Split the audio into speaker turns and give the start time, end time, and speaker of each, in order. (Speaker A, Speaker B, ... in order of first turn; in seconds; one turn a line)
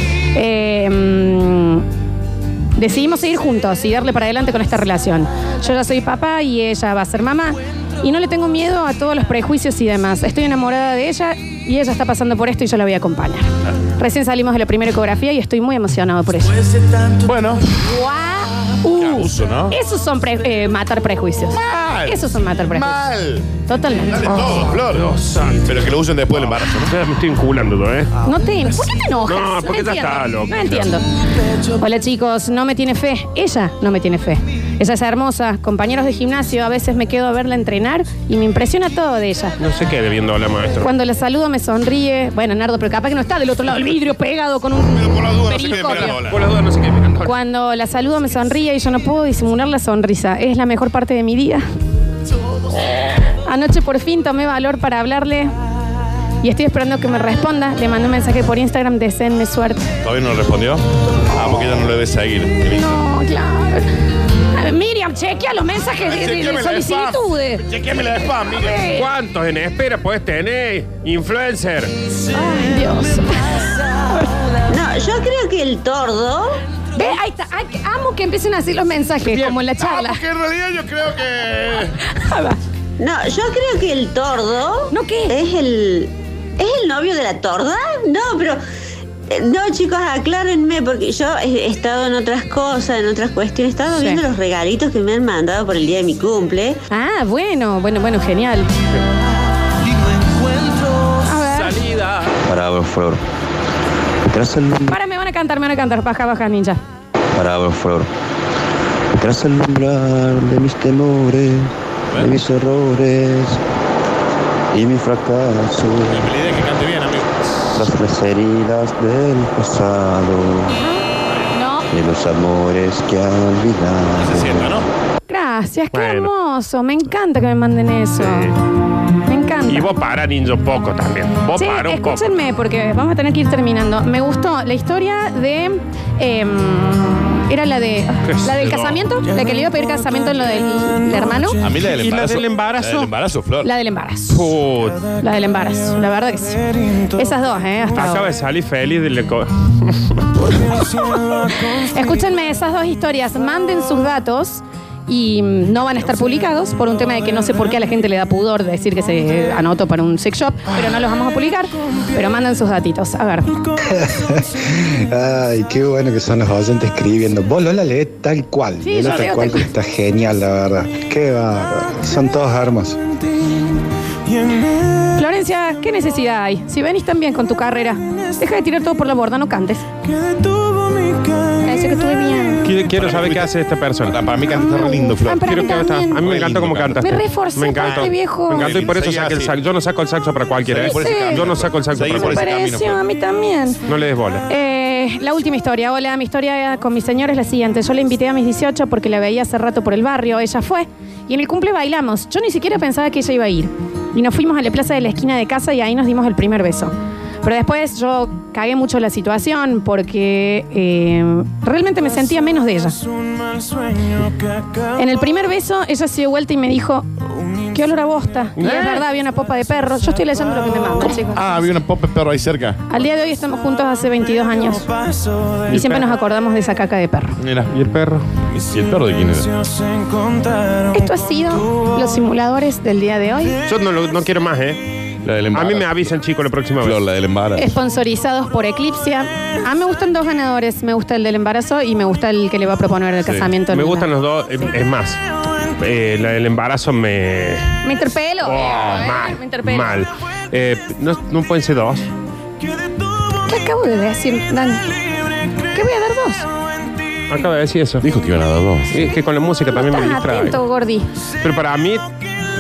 Speaker A: 0.3-1.9
Speaker A: 2.8-16.6
Speaker B: 17.2-17.7
Speaker A: 17.8-23.1
Speaker B: 18.9-19.8
Speaker B: 21.5-25.1
Speaker A: 23.6-24.3
Speaker C: 24.9-25.8
Speaker B: 25.6-26.9
Speaker C: 26.9-28.1
Speaker A: 28.2-31.0
Speaker C: 29.3-30.9
Speaker A: 31.8-39.6
Speaker C: 39.6-40.9
Speaker A: 40.8-46.2
Speaker B: 44.9-46.4
Speaker C: 45.8-47.3
Speaker A: 47.2-51.6
Speaker A: 53.5-55.5
Speaker A: 56.4-59.9
Speaker B: 60.0-63.0
Speaker A: 62.7-63.9
Speaker A: 64.5-67.6
Speaker B: 66.0-68.8
Speaker A: 68.5-69.1
Speaker C: 68.9-71.9
Speaker A: 72.3-74.3
Speaker D: 74.7-76.6
Speaker A: 77.0-80.2
Speaker B: 79.8-82.0
Speaker A: 82.1-82.6
Speaker D: 83.0-88.6
Speaker A: 84.9-85.3
Speaker D: 89.3-96.8
Speaker A: 93.9-94.2
Speaker A: 96.9-98.7
Speaker A: 101.2-101.8
Speaker C: 101.5-102.4
Speaker E: 102.4-103.2
Speaker E: 104.3-105.0
Speaker A: 104.9-106.8
Speaker E: 107.3-108.1
Speaker E: 109.1-113.6
Speaker B: 112.1-112.4
Speaker E: 114.7-116.3
Speaker B: 116.1-117.3
Speaker E: 117.8-120.8
Speaker A: 120.7-121.9
Speaker E: 121.9-124.8
Speaker B: 124.2-124.9
Speaker A: 125.3-128.5
Speaker C: 125.9-126.3
Speaker C: 128.2-128.5
Speaker A: 129.3-129.9
Speaker C: 129.7-132.2
Speaker A: 131.6-141.6
Speaker C: 138.3-139.0
Speaker B: 141.6-143.7
Speaker C: 141.8-143.1
Speaker A: 143.6-144.5
Speaker C: 144.3-145.1
Speaker A: 145.2-148.3
Speaker C: 147.9-150.2
Speaker A: 150.8-163.5
Speaker F: 163.9-173.0
Speaker A: 168.8-169.7
Speaker B: 169.0-169.4
Speaker A: 175.1-179.9
Speaker A: 181.6-182.6
Speaker C: 182.6-184.2
Speaker B: 182.8-183.5
Speaker B: 184.0-187.1
Speaker A: 184.5-186.3
Speaker C: 185.5-192.4
Speaker A: 187.0-188.7
Speaker B: 187.8-189.6
Speaker B: 190.6-193.0
Speaker A: 190.8-191.5
Speaker A: 192.1-193.8
Speaker C: 193.9-194.4
Speaker A: 194.5-212.9
Speaker A: 214.9-217.1
Speaker A: 217.7-221.4
Speaker C: 218.6-219.0
Speaker B: 221.3-222.8
Speaker A: 222.9-224.9
Speaker A: 225.7-227.4
Speaker C: 225.7-226.0
Speaker B: 227.4-227.7
Speaker C: 227.7-228.2
Speaker B: 228.5-229.5
Speaker A: 230.9-233.6
Speaker C: 233.7-234.8
Speaker B: 235.2-236.1
Speaker C: 235.5-237.0
Speaker B: 236.8-237.7
Speaker A: 237.6-244.1
Speaker C: 243.7-245.2
Speaker C: 245.8-247.8
Speaker A: 247.8-250.0
Speaker C: 248.4-252.1
Speaker A: 253.4-254.9
Speaker A: 255.7-256.5
Speaker C: 257.3-258.1
Speaker B: 258.0-258.9
Speaker C: 258.9-260.6
Speaker A: 259.7-261.1
Speaker C: 261.4-262.1